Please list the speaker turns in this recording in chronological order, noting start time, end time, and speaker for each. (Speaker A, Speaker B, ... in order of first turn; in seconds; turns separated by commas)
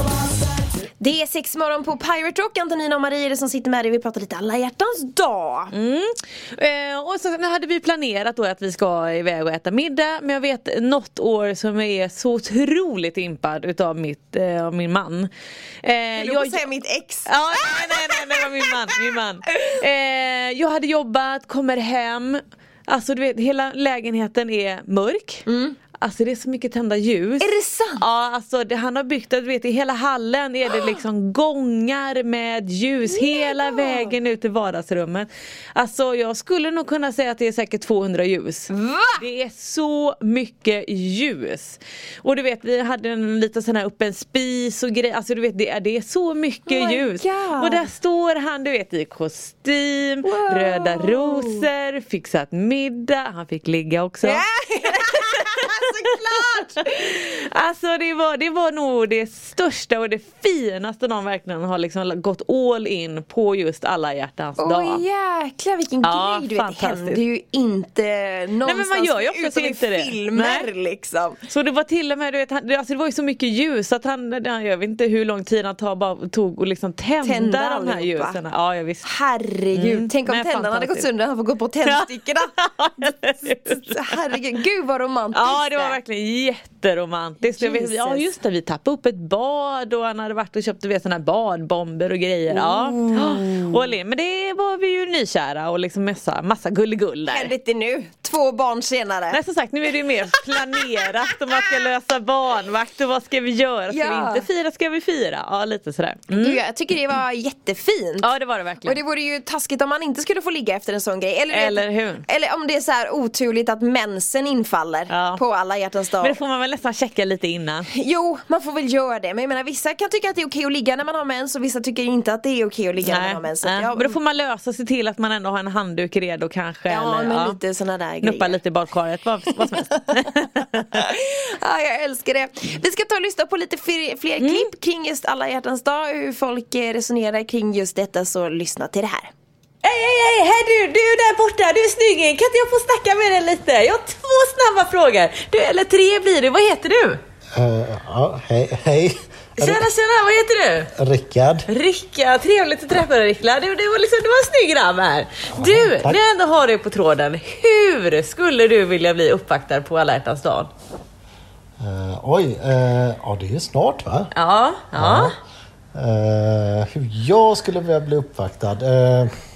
Speaker A: 1.0-5.7, Speaker B: 5.7-15.3, Speaker B: 15.8-16.6, Speaker A: 16.2-18.9, Speaker B: 17.2-25.4, Speaker A: 19.5-19.8, Speaker A: 25.5-25.8, Speaker B: 26.0-55.9, Speaker A: 27.4-28.0, Speaker A: 33.1-34.1, Speaker A: 38.7-39.2, Speaker A: 46.7-47.9, Speaker A: 50.2-51.7, Speaker A: 54.2-57.1, Speaker B: 56.4-65.0, Speaker A: 64.6-71.4, Speaker B: 66.0-67.2, Speaker B: 68.7-70.7, Speaker B: 71.5-79.0, Speaker A: 77.2-78.4, Speaker A: 79.0-86.0, Speaker B: 79.7-81.0, Speaker B: 81.8-84.1, Speaker B: 85.3-97.5, Speaker A: 87.5-88.3, Speaker A: 92.5-93.8, Speaker A: 97.3-99.4, Speaker B: 99.3-106.6, Speaker A: 103.9-104.5, Speaker A: 106.3-108.3, Speaker B: 108.2-109.0, Speaker A: 108.8-116.4, Speaker B: 111.5-112.2, Speaker B: 115.1-115.4, Speaker B: 116.2-117.9, Speaker A: 117.9-124.2, Speaker B: 123.0-127.6, Speaker A: 126.9-128.6, Speaker B: 128.2-131.1, Speaker A: 129.6-129.9, Speaker A: 130.9-139.3, Speaker B: 134.4-134.7, Speaker B: 139.8-147.2, Speaker C: 147.5-149.9, Speaker B: 149.6-150.9, Speaker C: 150.9-151.7, Speaker B: 151.7-160.7, Speaker C: 155.6-156.2, Speaker C: 161.8-164.3, Speaker B: 164.3-165.3, Speaker C: 164.9-165.3, Speaker C: 165.9-169.3